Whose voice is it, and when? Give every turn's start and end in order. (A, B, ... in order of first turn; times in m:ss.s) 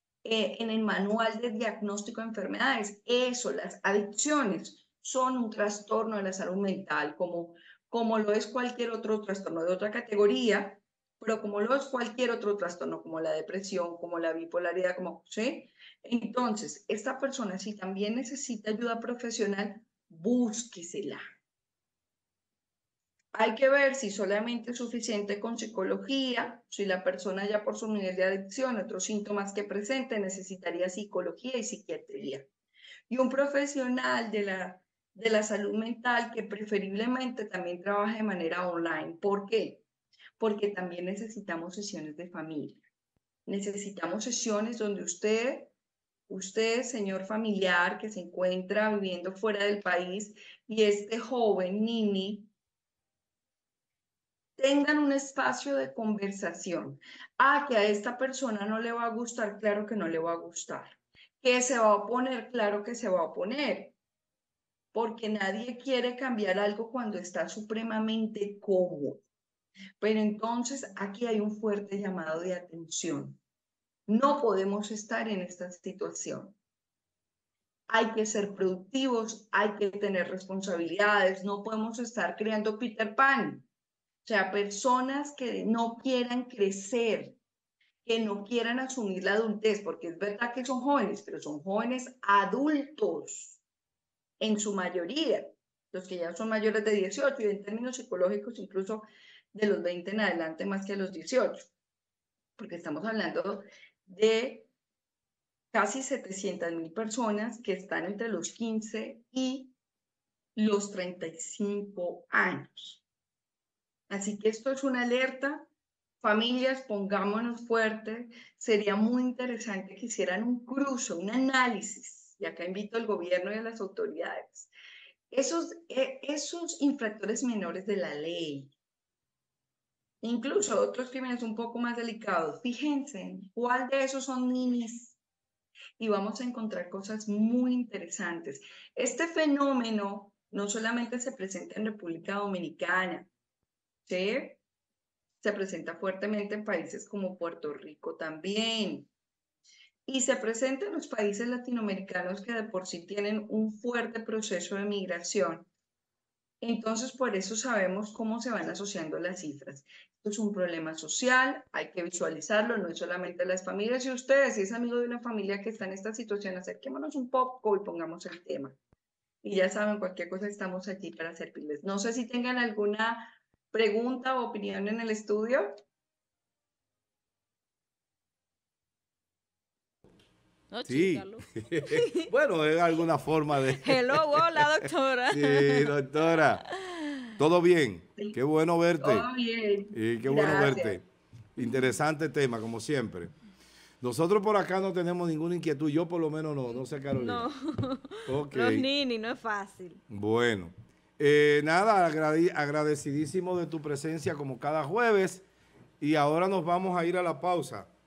0:00.2-0:21.3 A
0:23.3-0:32.5 A
0:33.1-0:39.8 A
0:40.4-0:42.8 A
0:43.4-0:45.7 A
0:46.3-0:52.5 A
0:54.6-1:04.0 A
1:04.9-1:09.2 A
1:10.0-1:13.4 A
1:14.1-1:16.6 A
1:17.9-1:23.7 A
1:24.2-1:27.4 A
1:28.0-1:33.6 A
1:34.4-1:41.7 A
1:42.6-1:44.7 A
1:45.7-1:49.7 A
1:50.6-1:53.0 A
1:54.1-1:55.7 A
1:56.2-2:04.7 A
2:05.3-2:08.7 A
2:10.2-2:15.2 A
2:16.0-2:23.3 A
2:24.0-2:24.6 A
2:25.4-2:29.1 A
2:30.0-2:35.7 A
2:36.6-2:48.8 A
2:49.4-2:55.7 A
3:00.7-3:02.3 B
3:00.8-3:04.7 C
3:03.8-3:05.9 B
3:05.3-3:06.6 C
3:06.5-3:07.0 B
3:07.4-3:09.3 C
3:09.0-3:11.0 A
3:09.9-3:11.0 C
3:11.6-3:13.3 C
3:14.0-3:17.5 C
3:17.1-3:20.0 B
3:18.3-3:18.9 C
3:20.1-3:25.4 C
3:26.0-3:27.9 C